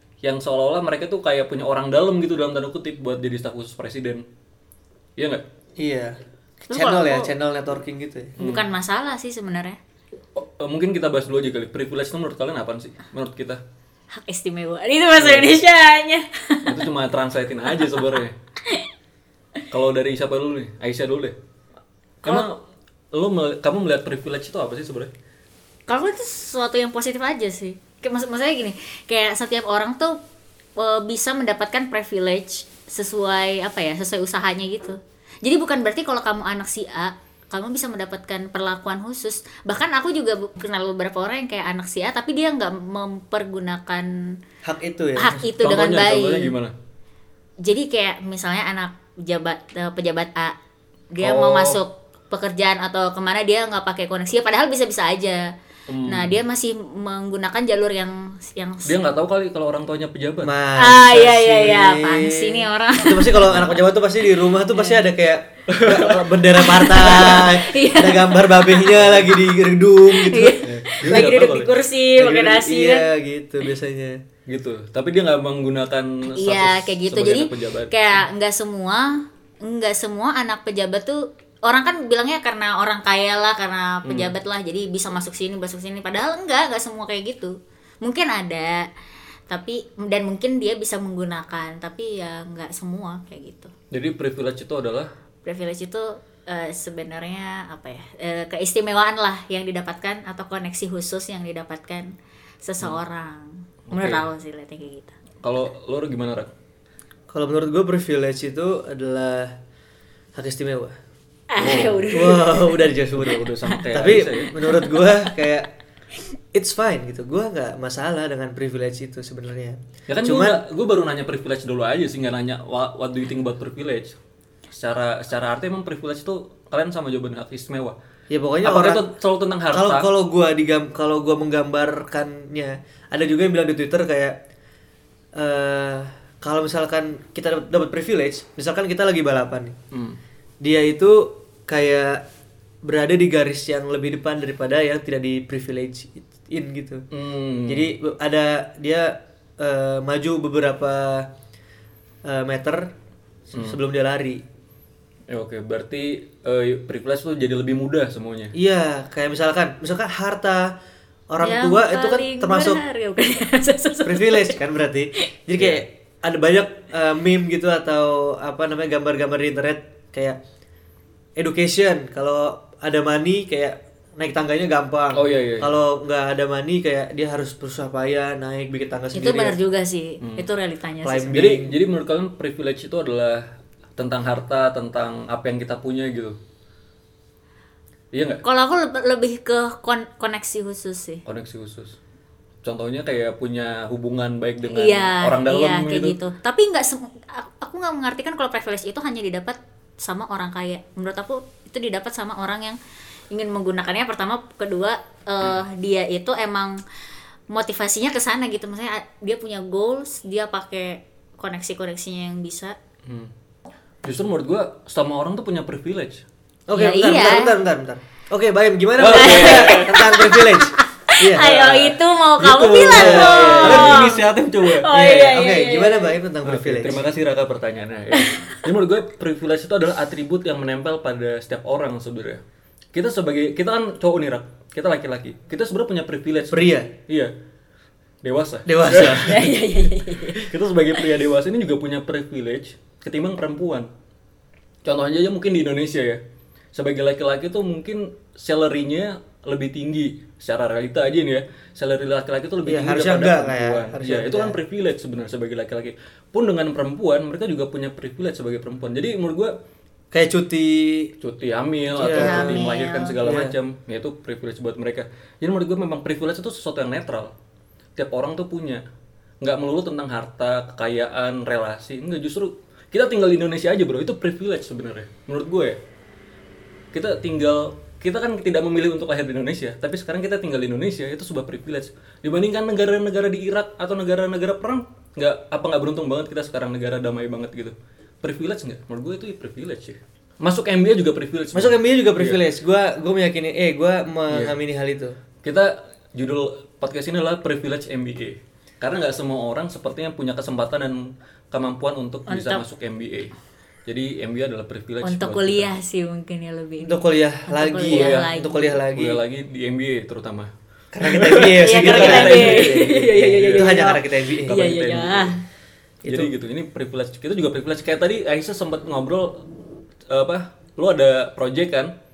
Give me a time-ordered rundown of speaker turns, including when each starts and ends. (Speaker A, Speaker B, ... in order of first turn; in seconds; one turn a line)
Speaker A: 0.2-4.2
Speaker A: 5.2-5.4
Speaker B: 5.8-6.2
Speaker C: 6.6-7.3
Speaker B: 6.7-8.3
Speaker A: 8.4-8.7
Speaker C: 8.4-9.8
Speaker A: 10.4-13.6
Speaker C: 14.2-16.8
Speaker A: 15.2-15.6
Speaker A: 16.6-18.4
Speaker A: 19.7-21.4
Speaker A: 22.2-22.6
Speaker A: 23.1-25.1
Speaker C: 25.9-30.2
Speaker C: 30.8-44.1
Speaker B: 44.6-45.3
Speaker C: 45.1-46.5
Speaker A: 45.3-46.7
Speaker C: 47.6-50.5
Speaker C: 51.1-55.4
Speaker A: 51.2-51.8
Speaker A: 55.9-56.4
Speaker C: 56.1-59.0
Speaker A: 58.8-60.5
Speaker B: 60.4-71.5
Speaker C: 60.8-63.5
Speaker A: 63.5-63.8
Speaker C: 64.7-65.0
Speaker A: 65.7-67.4
Speaker C: 67.0-69.0
Speaker C: 70.1-73.1
Speaker A: 70.6-71.7
Speaker B: 72.2-74.2
Speaker A: 74.5-77.9
Speaker C: 76.3-88.9
Speaker A: 84.0-84.3
Speaker C: 89.5-93.7
Speaker A: 93.9-95.1
Speaker C: 95.4-102.1
Speaker C: 102.6-105.1
Speaker A: 103.9-104.2
Speaker A: 105.4-106.5
Speaker B: 107.3-109.5
Speaker B: 110.3-110.9
Speaker C: 111.5-112.9
Speaker A: 111.6-112.2
Speaker B: 112.1-115.7
Speaker A: 113.2-114.6
Speaker C: 114.6-115.1
Speaker B: 116.5-120.6
Speaker A: 120.1-124.1
Speaker A: 124.7-127.9
Speaker B: 128.3-129.1
Speaker A: 128.6-130.1
Speaker B: 129.7-134.4
Speaker B: 135.4-139.8
Speaker A: 139.9-140.2
Speaker B: 140.6-142.2
Speaker B: 142.8-147.0
Speaker A: 147.1-147.9
Speaker B: 147.7-151.3
Speaker B: 152.2-152.9
Speaker B: 153.5-154.4
Speaker A: 155.3-158.5
Speaker B: 158.5-160.8
Speaker B: 161.3-162.8
Speaker C: 161.4-164.6
Speaker B: 164.0-170.4
Speaker A: 165.6-165.8
Speaker B: 171.4-179.6
Speaker A: 175.1-175.7
Speaker C: 179.1-181.4
Speaker B: 181.0-181.8
Speaker A: 181.3-183.4
Speaker A: 184.0-186.4
Speaker A: 188.1-188.4
Speaker C: 188.4-191.2
Speaker A: 191.2-192.0
Speaker A: 192.6-196.2
Speaker C: 194.7-202.8
Speaker C: 203.3-206.8
Speaker C: 207.5-212.8
Speaker A: 214.0-216.2
Speaker B: 216.7-222.0
Speaker C: 216.7-217.5
Speaker A: 219.0-220.0
Speaker C: 219.0-224.2
Speaker A: 222.4-224.9
Speaker B: 222.9-224.3
Speaker C: 224.7-226.2
Speaker B: 224.9-227.0
Speaker A: 226.4-232.4
Speaker C: 228.1-228.6
Speaker A: 232.9-237.3
Speaker B: 236.5-236.9
Speaker A: 238.2-239.5
Speaker B: 238.7-239.5
Speaker C: 239.2-240.5
Speaker A: 240.4-243.9
Speaker A: 244.8-246.2
Speaker A: 246.7-259.5
Speaker B: 252.6-254.6
Speaker B: 260.1-261.1
Speaker A: 261.2-267.3
Speaker C: 261.9-263.2
Speaker B: 262.0-262.7
Speaker B: 263.2-263.6
Speaker A: 268.0-268.8
Speaker A: 269.4-275.8
Speaker A: 276.9-292.4
Speaker B: 291.5-295.2
Speaker A: 294.3-294.6
Speaker A: 295.4-303.3
Speaker C: 302.3-302.6
Speaker A: 303.9-305.7
Speaker C: 305.0-308.8
Speaker B: 306.8-309.2
Speaker A: 307.9-308.3
Speaker A: 308.9-310.5
Speaker B: 310.9-314.5
Speaker A: 311.0-313.8
Speaker C: 311.6-315.4
Speaker A: 314.4-315.4
Speaker B: 316.0-316.3
Speaker A: 316.0-319.4
Speaker A: 320.1-321.9